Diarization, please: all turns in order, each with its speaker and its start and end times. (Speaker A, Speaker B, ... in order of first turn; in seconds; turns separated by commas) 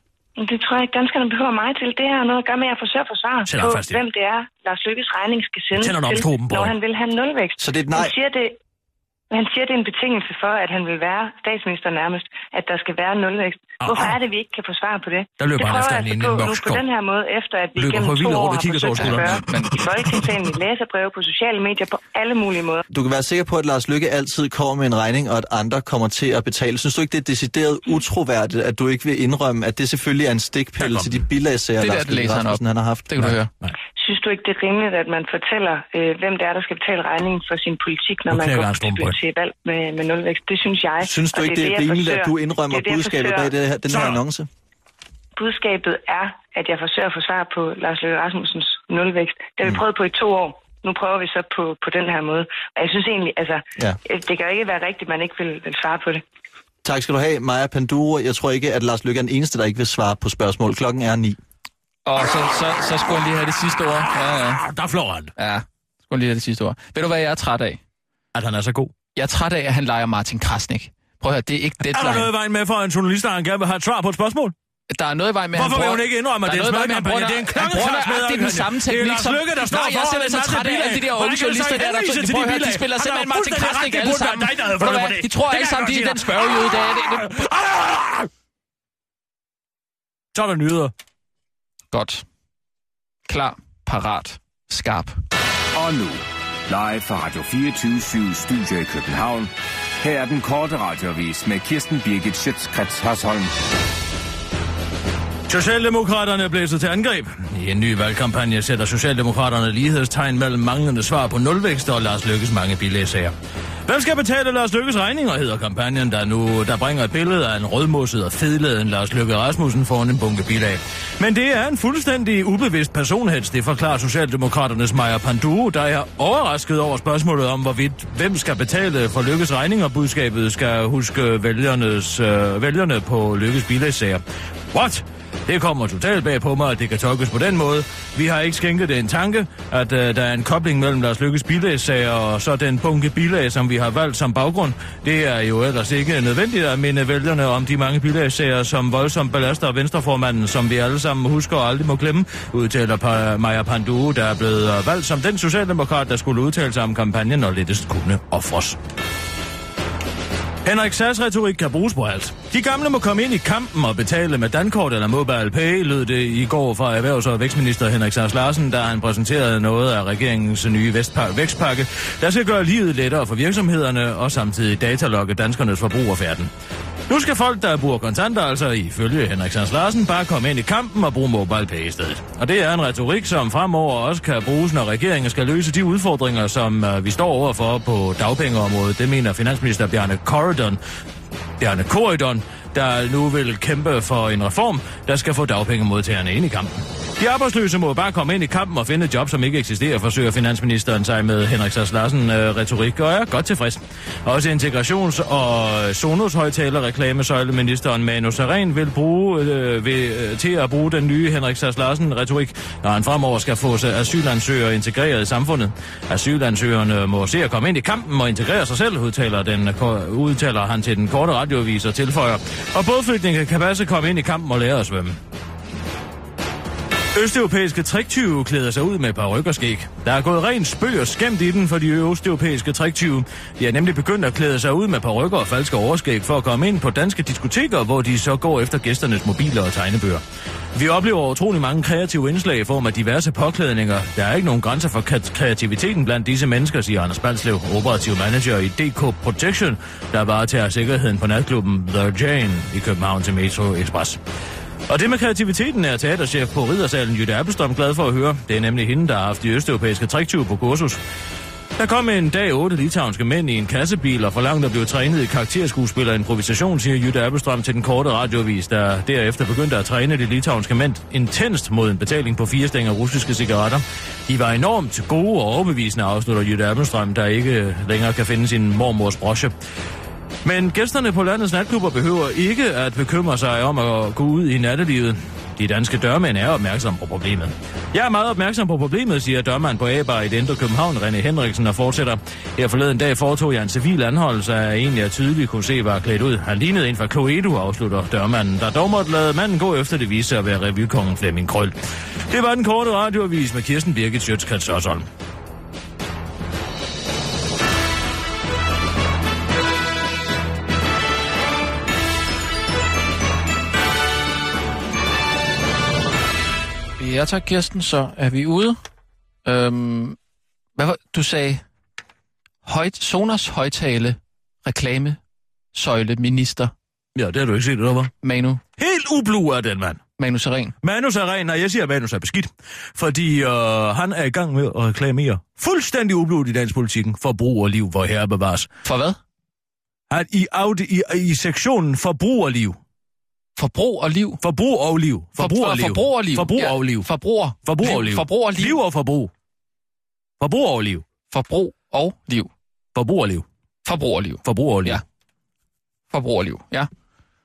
Speaker A: 0.4-8.6, Speaker B: 3.5-4.0, Speaker B: 5.7-6.8, Speaker C: 7.6-8.1, Speaker A: 9.3-22.8, Speaker B: 13.8-14.2, Speaker B: 15.4-16.8, Speaker B: 17.8-20.4, Speaker D: 19.0-19.8, Speaker C: 22.9-33.1, Speaker B: 30.8-31.2, Speaker D: 31.8-33.5, Speaker B: 33.2-33.7, Speaker A: 34.0-43.5, Speaker B: 38.3-39.1, Speaker C: 41.0-44.5, Speaker B: 43.9-44.2, Speaker A: 45.4-56.2, Speaker C: 56.8-61.4, Speaker D: 62.0-64.6, Speaker B: 64.5-65.3, Speaker D: 65.4-67.8, Speaker B: 68.3-68.9, Speaker D: 69.2-72.3, Speaker B: 71.8-74.5, Speaker D: 74.9-87.4, Speaker B: 75.5-88.3, Speaker B: 90.3-90.9, Speaker D: 91.9-92.2, Speaker D: 93.3-95.2, Speaker E: 95.7-103.5, Speaker B: 105.5-113.3, Speaker B: 113.9-134.2, Speaker B: 134.7-158.8, Speaker B: 160.6-176.5, Speaker B: 177.1-190.8, Speaker B: 191.6-225.2, Speaker B: 227.1-240.2, Speaker B: 240.7-254.2, Speaker B: 254.9-261.0, Speaker B: 261.8-279.5, Speaker B: 280.4-301.7, Speaker B: 302.3-305.1, Speaker D: 317.0-318.8, Speaker D: 319.4-320.2, Speaker D: 320.8-321.6, Speaker D: 322.6-325.2, Speaker D: 325.7-326.7, Speaker B: 327.1-328.1, Speaker D: 328.2-328.6, Speaker B: 328.8-330.0, Speaker D: 330.2-330.7, Speaker B: 330.8-338.7, Speaker D: 338.8-339.2, Speaker B: 340.1-342.8, Speaker D: 343.6-344.4, Speaker B: 344.4-347.1, Speaker D: 345.4-348.8, Speaker B: 347.6-349.3, Speaker B: 350.4-351.0, Speaker D: 351.3-352.5, Speaker B: 352.9-353.4, Speaker D: 353.8-355.0, Speaker B: 354.4-355.0, Speaker D: 356.1-356.9